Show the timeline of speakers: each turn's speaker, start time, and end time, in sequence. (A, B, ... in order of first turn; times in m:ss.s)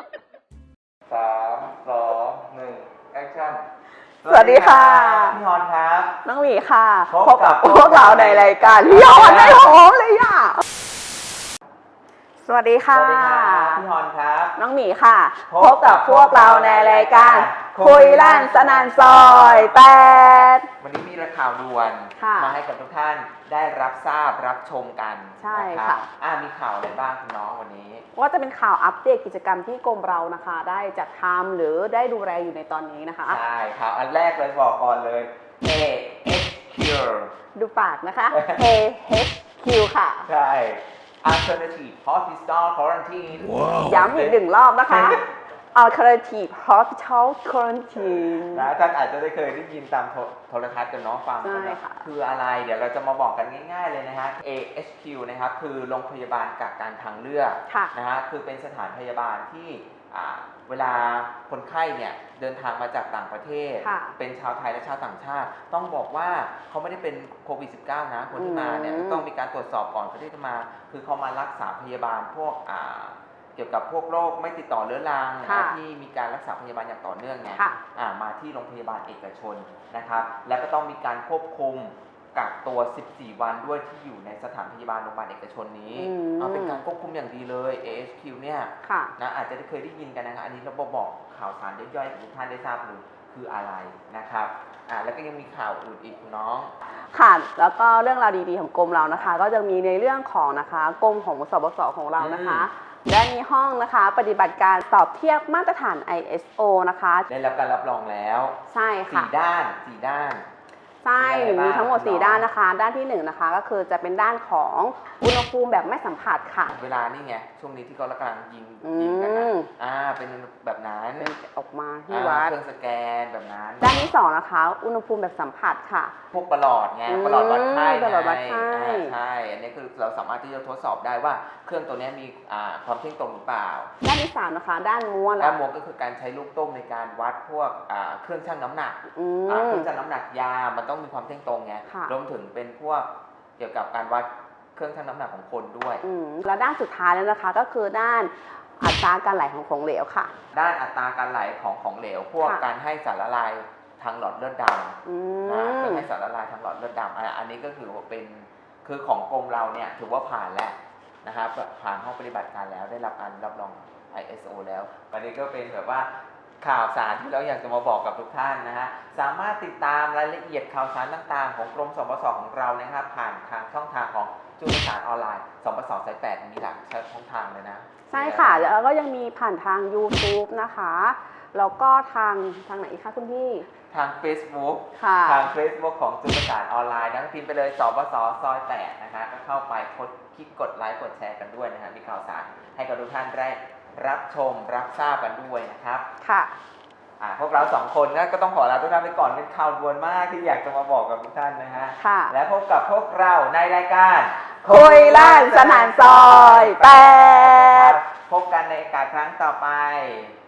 0:01.1-0:03.6 A
0:04.2-0:06.2 A
0:04.2-0:05.4 B
0:06.2-0:10.6 B
0:07.1-0:09.8 A
0:12.4-0:13.8 B
0:12.9-0:14.6 A
0:14.6-0:20.7 B
0:15.5-0:28.1 A
0:22.2-0:22.6 B
0:25.4-0:26.1 B
0:28.1-0:33.4 B
0:33.2-0:37.3 A
0:37.6-0:40.3 B
0:38.3-0:38.7 A
0:40.2-0:44.4 A
0:43.8-0:45.2 B
0:44.9-0:45.2 A
0:45.7-0:48.7 B
0:48.4-1:36.7 A
0:51.4-0:52.0 B
0:57.7-0:57.9 B
1:03.8-1:04.2 B
1:08.3-1:09.3 B
1:15.4-1:15.8 B
1:17.5-1:17.8 B
1:25.9-1:26.8 B
1:28.8-1:29.1 B
1:37.1-1:47.3 B
1:42.2-1:42.7 A
1:47.3-1:48.6 A
1:48.7-1:49.3 B
1:49.1-1:50.4 A
1:51.0-1:56.7 B
1:51.2-1:52.5 A
1:56.7-2:01.3 A
1:58.8-1:59.7 B
2:01.2-2:02.6 B
2:02.1-2:04.1 A
2:03.8-2:06.1 B
2:06.3-2:13.9 A
2:07.1-2:09.1 B
2:14.0-2:15.6 B
2:15.4-2:26.0 A
2:19.1-2:19.9 B
2:21.9-2:22.1 B
2:26.0-2:30.3 B
2:30.5-2:46.1 A
2:35.0-2:36.1 B
2:46.6-2:58.7 A
2:58.1-3:03.7 B
3:03.9-3:16.0 A
3:05.0-3:05.5 B
3:16.2-3:16.6 B
3:17.2-3:30.4 A
3:22.0-3:22.3 B
3:24.6-3:28.0 B